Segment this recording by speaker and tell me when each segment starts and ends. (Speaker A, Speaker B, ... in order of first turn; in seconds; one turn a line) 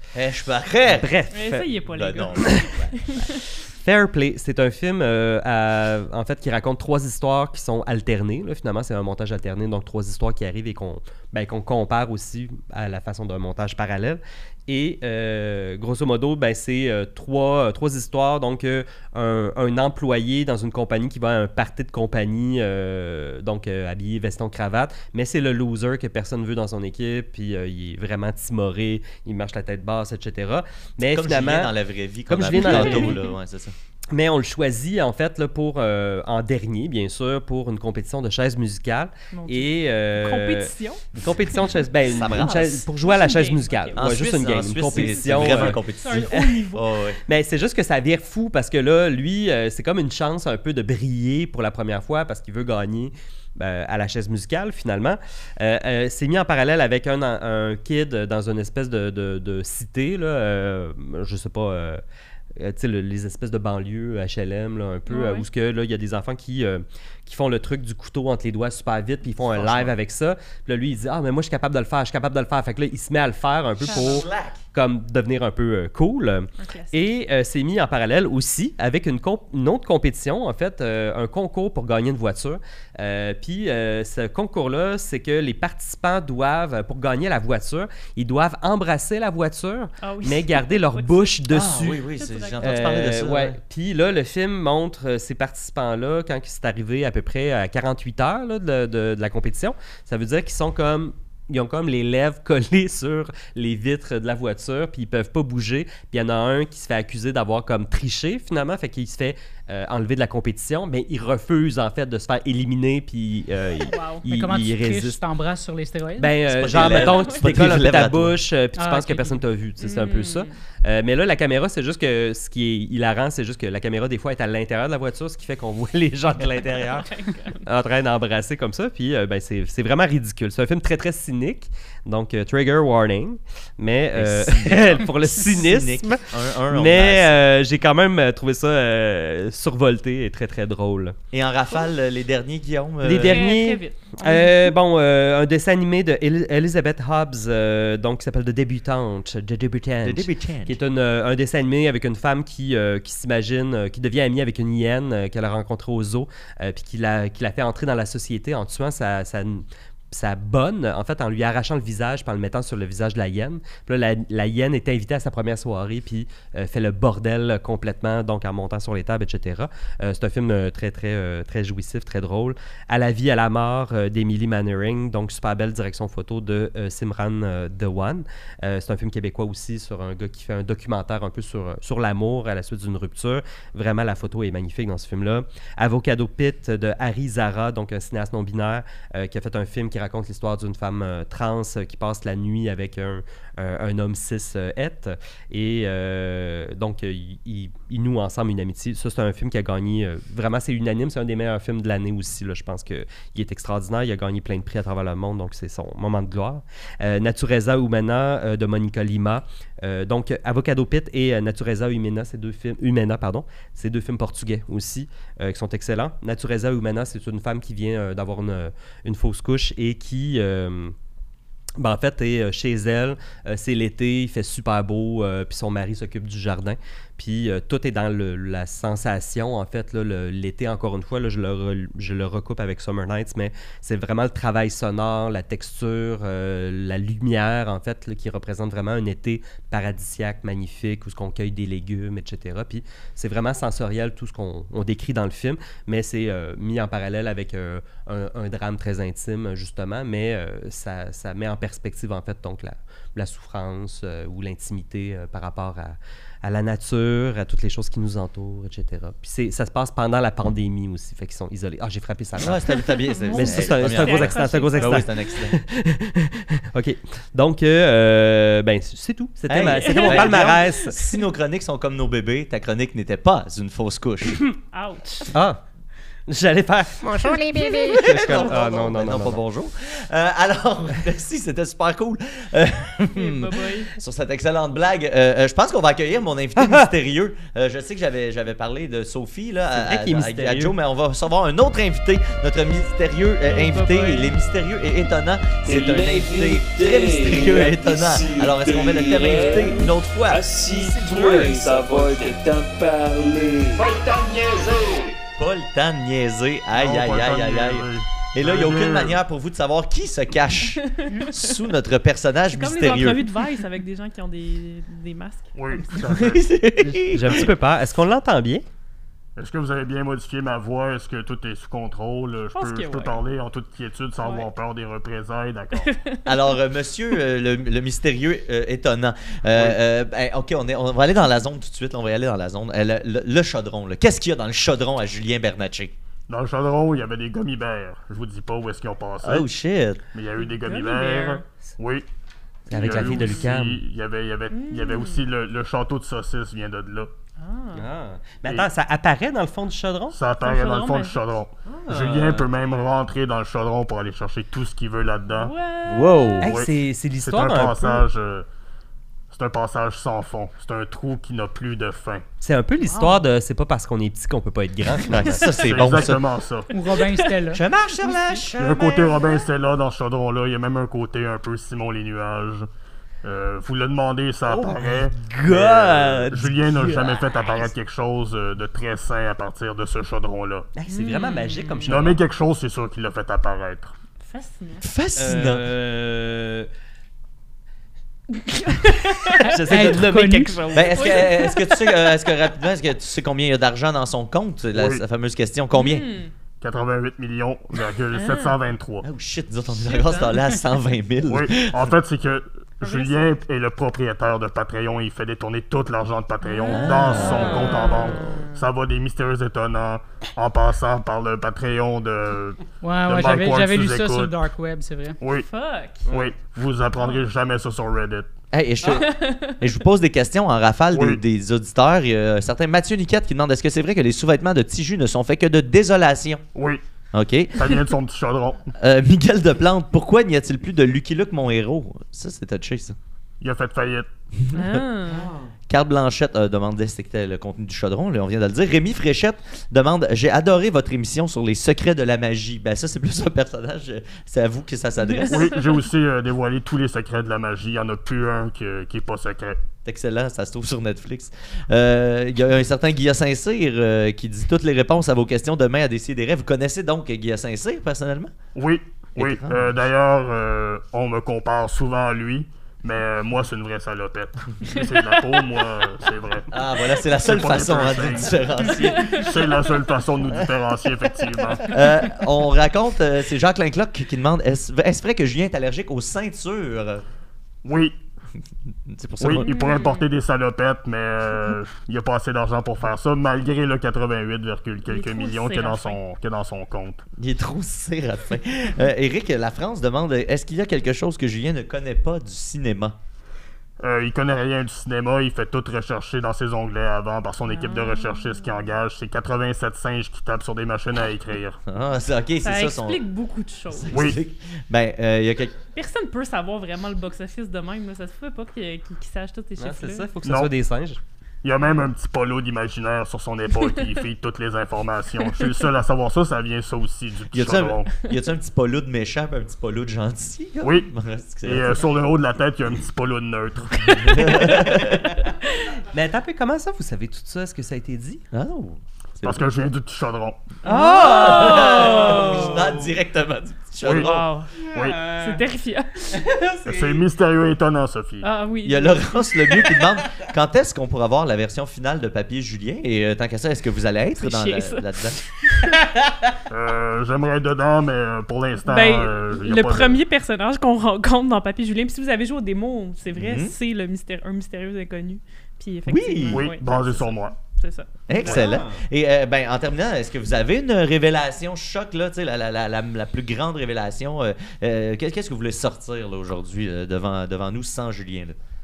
Speaker A: 0.1-1.1
Speaker B: 0.8-1.7
Speaker C: 1.3-3.4
Speaker A: 1.9-3.0
Speaker B: 2.4-2.7
Speaker B: 3.7-31.7
Speaker A: 31.1-33.7
Speaker B: 32.3-33.2
Speaker C: 32.5-33.3
Speaker B: 34.1-46.3
Speaker C: 39.3-41.5
Speaker A: 42.0-42.9
Speaker C: 43.0-44.1
Speaker A: 44.0-47.2
Speaker C: 44.8-46.9
Speaker B: 47.2-62.0
Speaker B: 62.6-92.0
Speaker C: 65.1-65.5
Speaker A: 69.4-69.9
Speaker A: 73.8-74.6
Speaker C: 73.9-74.2
Speaker C: 76.6-77.0
Speaker C: 90.0-91.4
Speaker A: 91.5-93.6
Speaker C: 92.1-92.9
Speaker B: 92.6-115.2
Speaker C: 113.8-114.2
Speaker D: 114.2-116.3
Speaker B: 116.2-141.2
Speaker A: 116.5-118.4
Speaker C: 116.7-117.7
Speaker D: 118.8-119.4
Speaker C: 119.8-120.5
Speaker C: 126.7-127.6
Speaker A: 134.1-137.4
Speaker A: 141.3-143.4
Speaker B: 143.0-220.9
Speaker C: 143.2-144.7
Speaker A: 150.0-150.8
Speaker B: 221.8-262.6
Speaker A: 262.4-265.6
Speaker C: 262.7-265.3
Speaker B: 263.3-270.9
Speaker A: 269.5-274.4
Speaker C: 269.6-271.2
Speaker C: 274.4-275.3
Speaker B: 275.3-275.6
Speaker B: 276.3-279.4
Speaker C: 277.3-278.5
Speaker A: 277.9-302.0
Speaker C: 283.1-283.9
Speaker B: 286.6-286.9
Speaker B: 289.8-290.7
Speaker C: 293.5-294.3
Speaker E: 295.6-305.2
Speaker A: 305.4-313.4
Speaker F: 306.7-309.2
Speaker C: 310.9-311.6
Speaker C: 312.5-316.0
Speaker F: 315.5-316.5
Speaker A: 316.0-317.5
Speaker B: 316.8-318.6
Speaker F: 319.4-325.9
Speaker C: 322.5-323.2
Speaker C: 324.2-324.4
Speaker C: 325.7-326.3
Speaker A: 326.2-335.9
Speaker F: 336.3-339.5
Speaker A: 339.2-340.0
Speaker F: 340.1-342.1
Speaker C: 340.4-341.4
Speaker B: 342.7-343.8
Speaker F: 342.7-347.1
Speaker C: 342.9-343.4
Speaker C: 344.5-345.2
Speaker C: 347.4-347.9
Speaker B: 347.7-350.2
Speaker F: 350.1-355.5
Speaker C: 350.4-351.2
Speaker B: 351.7-352.5
Speaker C: 355.3-356.6
Speaker B: 355.9-358.0
Speaker F: 356.4-358.5
Speaker F: 359.3-362.2
Speaker B: 362.4-365.5
Speaker C: 362.8-363.2
Speaker A: 365.1-366.2
Speaker F: 365.5-366.7
Speaker D: 366.7-367.6
Speaker C: 366.9-367.3
Speaker A: 367.5-369.3
Speaker F: 368.5-372.7
Speaker F: 373.2-380.7
Speaker B: 374.5-377.0
Speaker A: 375.4-377.7
Speaker B: 380.7-382.2
Speaker C: 380.9-381.9
Speaker F: 381.9-383.9
Speaker C: 384.2-384.8
Speaker A: 384.8-385.6
Speaker B: 385.2-386.7
Speaker C: 388.3-389.6
Speaker B: 389.3-391.3
Speaker D: 389.7-390.7
Speaker A: 390.7-396.0
Speaker C: 390.9-392.2
Speaker F: 394.7-395.0
Speaker C: 395.7-396.3
Speaker F: 396.6-399.1
Speaker C: 398.1-398.6
Speaker A: 399.0-401.9
Speaker C: 399.8-400.5
Speaker F: 401.2-414.4
Speaker C: 402.8-403.4
Speaker C: 406.4-408.7
Speaker A: 406.7-408.4
Speaker D: 412.8-415.2
Speaker F: 415.2-415.5
Speaker C: 415.3-416.1
Speaker F: 416.1-418.3
Speaker A: 418.5-426.4
Speaker C: 418.8-419.6
Speaker F: 420.9-421.2
Speaker F: 426.5-426.8
Speaker A: 427.1-427.8
Speaker F: 427.5-428.6
Speaker A: 428.7-433.0
Speaker F: 433.4-434.1
Speaker C: 434.5-435.3
Speaker B: 435.1-435.5
Speaker A: 435.7-445.6
Speaker C: 445.1-445.5
Speaker F: 445.3-449.6
Speaker A: 449.8-458.3
Speaker F: 458.5-471.7
Speaker A: 459.2-459.7
Speaker A: 466.5-469.3
Speaker C: 468.7-469.3
Speaker A: 471.7-477.0
Speaker F: 477.6-478.0
Speaker A: 478.9-479.7
Speaker F: 479.2-487.0
Speaker C: 479.4-480.1
Speaker C: 484.8-486.0
Speaker A: 487.2-492.9
Speaker F: 493.8-501.6
Speaker C: 497.4-498.5
Speaker A: 501.7-503.0
Speaker C: 502.4-504.0
Speaker A: 503.7-505.5
Speaker F: 503.9-504.2
Speaker C: 505.7-510.1
Speaker B: 509.6-511.0
Speaker F: 510.2-510.5
Speaker F: 511.4-517.9
Speaker A: 517.3-521.9
Speaker F: 520.6-520.9
Speaker F: 521.4-524.6
Speaker C: 523.9-524.8
Speaker A: 524.1-525.1
Speaker C: 525.4-525.7
Speaker B: 525.9-528.2
Speaker A: 528.3-529.5
Speaker F: 529.2-530.5
Speaker C: 530.6-532.6
Speaker B: 530.6-532.9
Speaker A: 530.7-534.2
Speaker F: 533.8-535.1
Speaker C: 534.0-536.3
Speaker B: 534.7-535.4
Speaker B: 536.1-537.0
Speaker F: 536.6-538.3
Speaker C: 538.2-539.3
Speaker A: 538.6-545.2
Speaker C: 544.2-545.8
Speaker F: 546.5-550.0
Speaker C: 548.6-558.4
Speaker A: 553.1-553.5
Speaker A: 555.9-557.1
Speaker F: 556.3-557.4
Speaker A: 558.1-568.4
Speaker B: 558.1-558.8
Speaker F: 558.2-558.5